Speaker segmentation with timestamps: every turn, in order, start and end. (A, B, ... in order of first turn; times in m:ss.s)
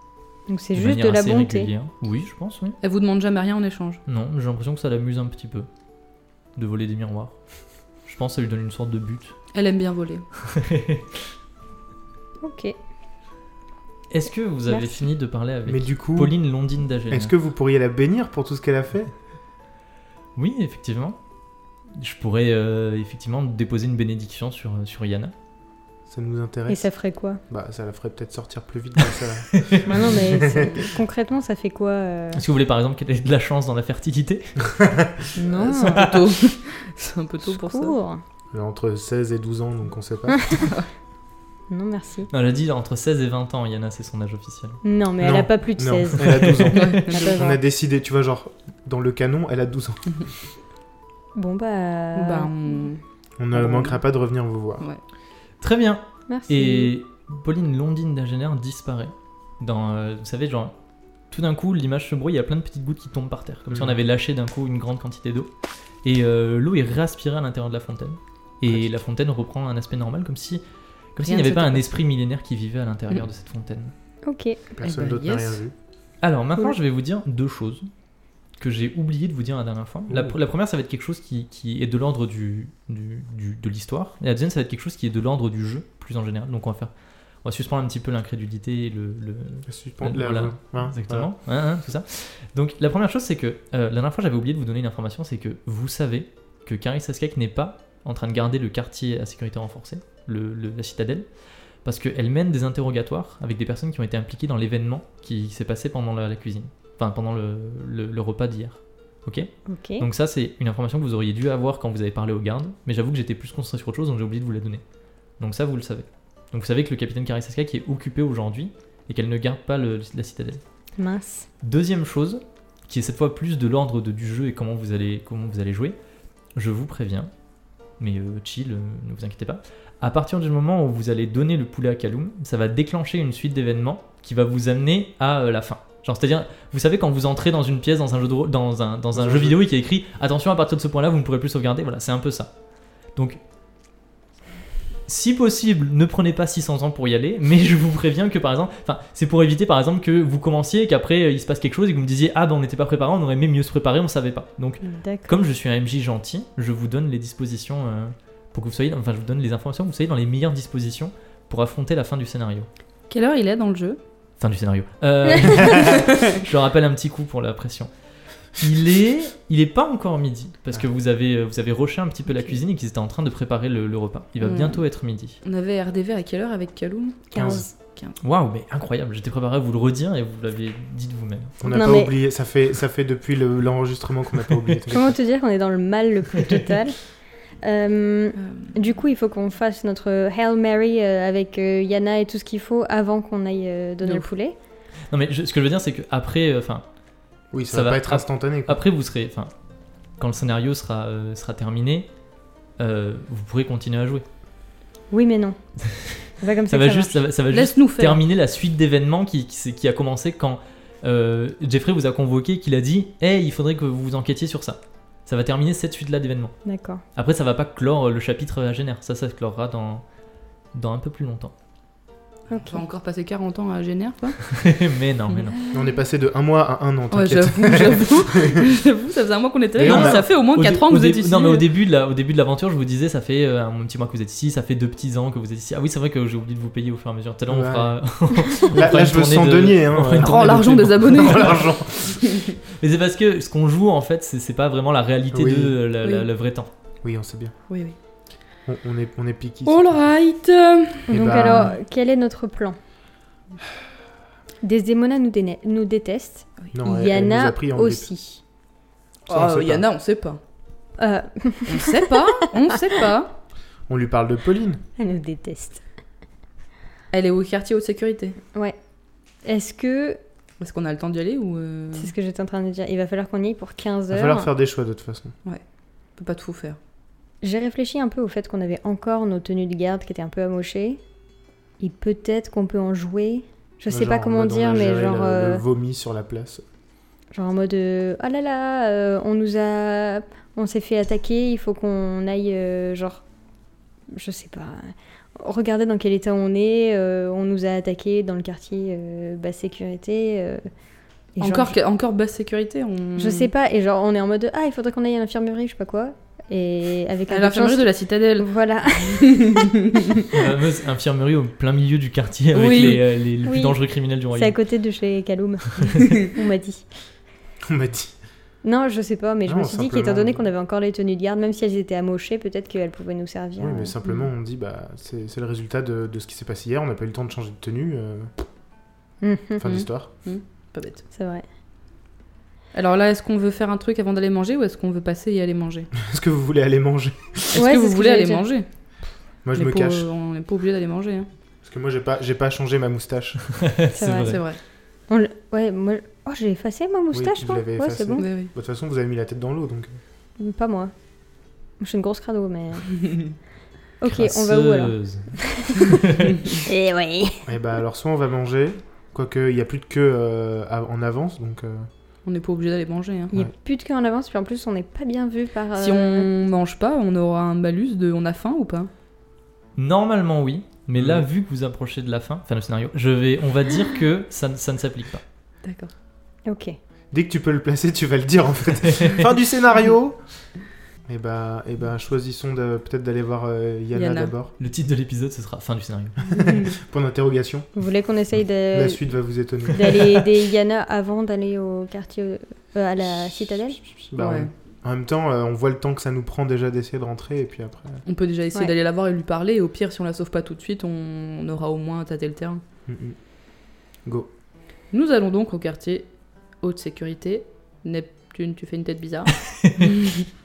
0:00.5-0:01.7 A
0:00.8-0:02.8 B
0:02.8-0:04.0 C
0:04.1-0:05.7 B
0:06.6-0:07.4 B
0:08.0-0:09.3 B
0:09.5-0:10.2 C
0:10.5-0:11.2 B
0:12.4-0:12.8 A
0:14.1-0:17.3 B
0:14.7-0:15.0 A
0:15.6-0:16.4 D
0:17.1-0:19.1 D
0:20.4-0:21.2 B
0:21.9-0:25.3 B
0:26.1-0:26.8 D
0:26.7-0:27.4 A
0:27.5-0:30.9 D
0:29.5-0:29.8 B
0:29.8-0:32.4 A
0:32.3-0:34.6 B
0:34.8-0:35.3 D
0:35.4-0:36.1 A
0:35.5-0:38.0 C
0:37.4-0:38.2 A
0:38.5-0:40.7 D
0:40.6-0:40.9 C
0:41.7-0:42.3 A
0:42.3-0:44.8 B
0:44.8-0:47.6 A
0:45.2-0:50.0 D
0:46.2-0:46.7 B
0:46.7-0:47.4 C
0:51.3-0:52.8 A
0:52.1-0:53.0 C
0:53.4-0:54.8 D
0:53.5-0:54.0 C
0:55.6-1:00.7 B
0:56.3-0:56.9 A
1:01.3-1:05.5 B
1:03.7-1:04.0 D
1:06.0-1:10.6 B
1:11.1-1:13.9 B
1:11.2-1:11.8 C
1:14.2-1:14.6 A
1:14.8-1:15.7 D
1:14.8-1:15.6 C
1:16.2-1:17.9 B
1:18.6-1:26.9 B
1:20.1-1:20.3 D
1:27.4-1:41.2 B
1:29.7-1:31.3 D
1:41.8-1:54.8 B
1:49.7-1:50.0 A
1:55.4-2:00.6 B
2:01.0-2:01.5 A
2:01.6-2:06.0 B
2:06.6-2:07.3 B
2:08.0-2:22.5 B
2:19.1-2:19.6 D
2:23.1-2:23.4 B
2:25.0-2:42.7 B
2:34.8-2:35.3 A
2:43.1-2:44.0 C
2:44.4-2:47.9 B
2:48.5-2:55.4 B
2:54.4-2:54.8 C
2:55.4-2:58.2 C
2:57.3-2:57.7 A
2:57.4-2:57.7 D
2:58.2-3:01.6 B
3:01.6-3:05.2 D
3:01.6-3:02.1 A
3:04.9-3:14.5 A
3:08.4-3:08.8 C
3:14.0-3:14.3 C
3:15.1-3:16.8 B
3:17.5-3:18.8 D
3:17.7-3:19.5 B
3:20.2-3:22.1 B
3:22.8-3:24.2 B
3:25.1-3:25.6 A
3:25.9-3:36.6 B
3:26.4-3:27.2 A
3:27.5-3:28.2 C
3:36.6-3:37.0 A
3:37.1-3:40.0 B
3:40.7-3:41.5 B
3:42.5-3:42.8 A
3:42.7-3:44.4 C
3:44.4-3:45.6 B
3:45.7-3:48.7 D
3:47.1-3:51.6 C
3:49.8-3:50.2 D
3:49.8-4:01.6 B
3:57.5-4:02.2 D
4:00.1-4:02.5 C
4:02.8-4:06.7 B
4:05.3-4:05.8 D
4:07.0-4:07.5 D
4:07.7-4:08.0 C
4:08.7-4:09.9 D
4:09.6-4:11.1 C
4:11.1-4:12.8 A
4:11.1-4:11.8 D
4:14.6-4:18.4 A
4:16.7-4:18.1 D
4:19.3-4:19.9 D
4:19.3-4:20.4 C
4:21.0-4:22.3 A
4:21.7-4:23.3 C
4:23.9-4:24.8 D
4:25.0-4:25.8 A
4:27.1-4:28.4 C
4:29.4-4:30.2 A
4:30.6-4:32.1 C
4:32.0-4:34.5 A
4:34.1-4:35.3 D
4:36.2-4:36.8 C
4:37.4-4:41.0 A
4:41.8-4:45.6 A
4:43.9-4:46.6 D
4:47.3-4:53.2 A
4:54.1-5:00.6 A
5:01.3-5:01.8 A
5:01.4-5:03.5 C
5:03.2-5:09.8 A
5:07.3-5:08.5 C
5:09.1-5:09.9 C
5:10.3-5:14.5 B
5:12.5-5:13.0 C
5:13.4-5:13.8 A
5:14.3-5:16.8 A
5:17.7-5:18.1 D
5:18.6-5:23.9 A
5:19.5-5:20.4 D
5:23.6-5:28.4 D
5:29.2-5:29.6 A
5:29.6-5:30.1 D
5:29.6-5:31.0 C
5:31.1-5:31.4 A
5:32.7-5:35.9 C
5:35.9-5:37.6 D
5:37.5-5:38.6 C
5:37.5-5:38.4 A
5:39.4-5:40.1 D
5:39.5-5:41.3 C
5:41.6-5:43.4 D
5:43.5-5:44.4 B
5:44.0-5:44.4 A
5:44.2-5:44.6 C
5:45.1-5:48.3 A
5:47.1-5:49.9 D
5:48.2-5:48.5 C
5:50.4-5:50.9 A
5:51.8-5:53.2 A
5:54.0-5:57.4 A
5:54.1-5:56.3 B
5:57.5-6:01.9 D
6:02.2-6:03.3 C
6:03.3-6:06.3 A
6:05.8-6:08.9 C
6:09.8-6:15.2 B
6:11.0-6:11.2 D
6:15.6-6:15.9 C
6:16.5-6:16.8 A
6:17.1-6:20.2 D
6:21.1-6:24.5 D
6:23.9-6:24.3 C
6:24.6-6:26.2 B
6:26.3-6:27.7 D
6:26.4-6:26.8 C
6:27.8-6:29.0 A
6:28.7-6:30.2 D
6:29.7-6:33.8 A
6:34.1-6:38.0 D
6:34.2-6:34.5 C
6:38.0-6:42.6 C
6:42.9-6:43.2 D
6:44.9-6:46.1 C
6:46.6-6:50.2 C